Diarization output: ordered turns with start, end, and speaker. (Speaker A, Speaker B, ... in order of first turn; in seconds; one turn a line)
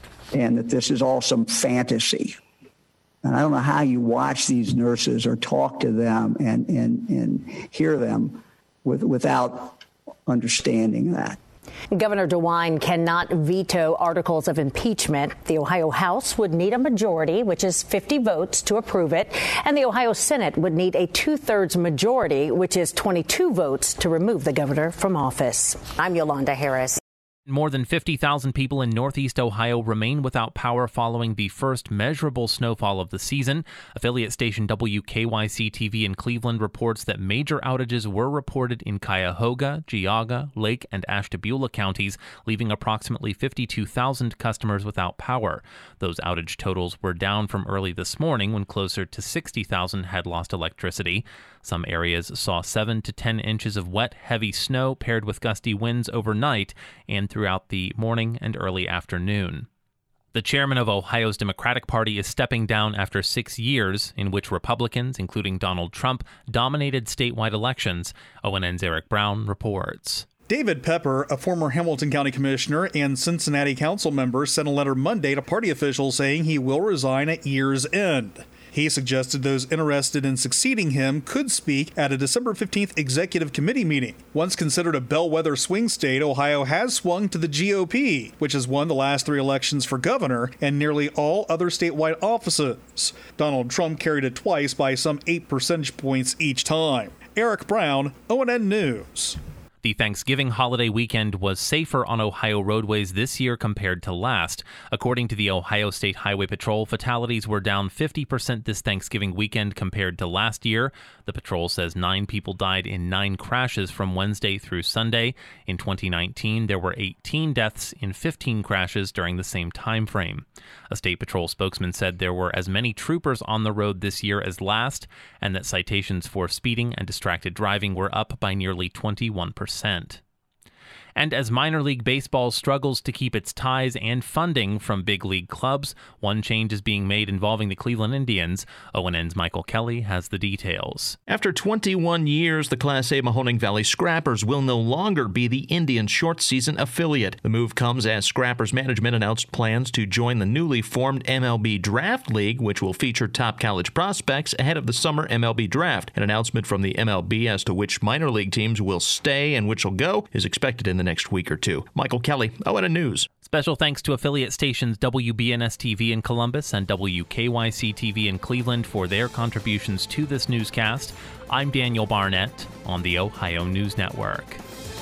Speaker A: 0.3-2.3
Speaker A: 3.2-11.4
Speaker B: 11.9-27.0
Speaker C: 27.5-59.7
Speaker C: 60.3-70.2
Speaker D: 70.5-99.4
Speaker C: 99.8-130.2
Speaker C: 131.2-141.2
Speaker E: 141.3-163.3
Speaker C: 163.4-174.6